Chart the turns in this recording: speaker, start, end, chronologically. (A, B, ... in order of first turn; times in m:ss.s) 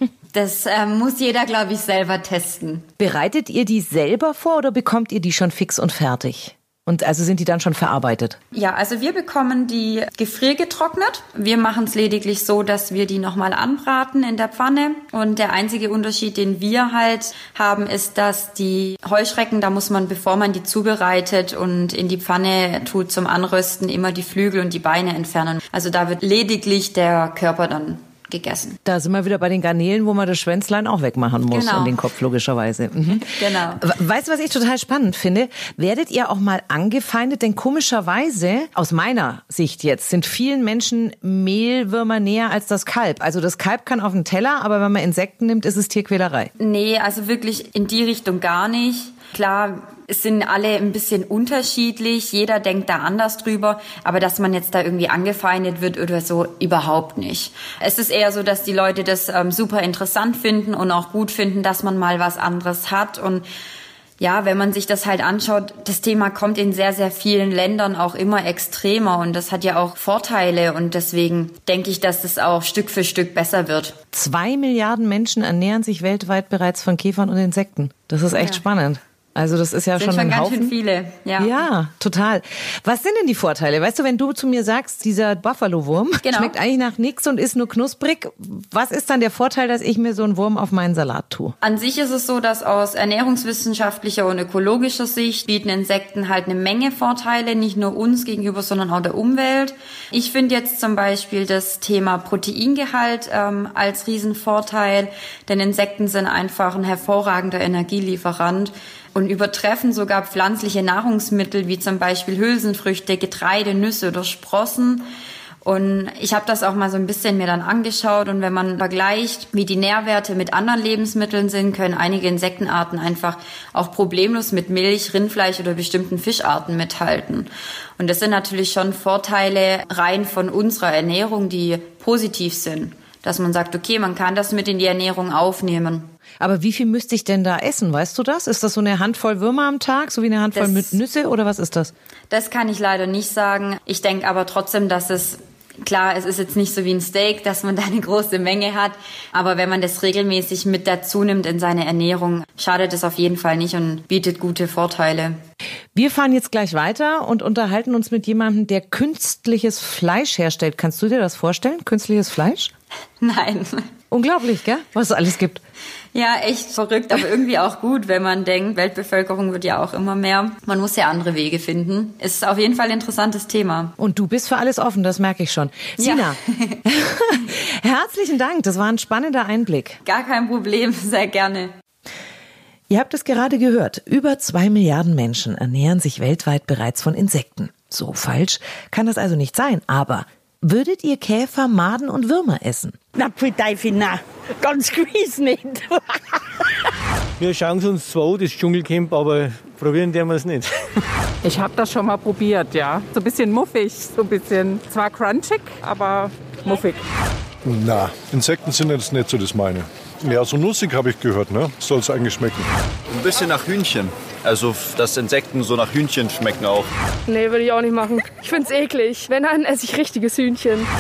0:00.3-0:02.8 A
0:03.0-0:08.4 B
0:08.5-0:28.8 A
0:28.8-0:46.5 B
0:31.5-0:32.0 A
0:33.1-0:33.8 A
0:46.6-1:03.4 A
1:04.2-1:14.0 A
1:14.1-1:20.7 B
1:18.3-1:18.6 A
1:20.0-1:21.5 A
1:21.4-1:31.5 B
1:26.2-1:26.5 A
1:31.6-1:55.1 A
1:55.6-2:16.1 A
2:16.4-2:21.9 B
2:20.5-2:21.0 A
2:22.3-2:35.4 A
2:35.9-2:42.7 B
2:43.2-2:43.9 A
2:44.1-2:45.6 B
2:46.1-2:53.9 A
2:54.0-3:00.0 B
2:56.0-2:56.8 A
3:00.0-3:01.7 A
3:02.9-3:13.0 B
3:13.1-3:16.6 C
3:17.4-3:20.7 D
3:21.4-3:27.0 E
3:27.6-3:32.7 F
3:33.1-3:36.9 G
3:37.3-3:40.9 H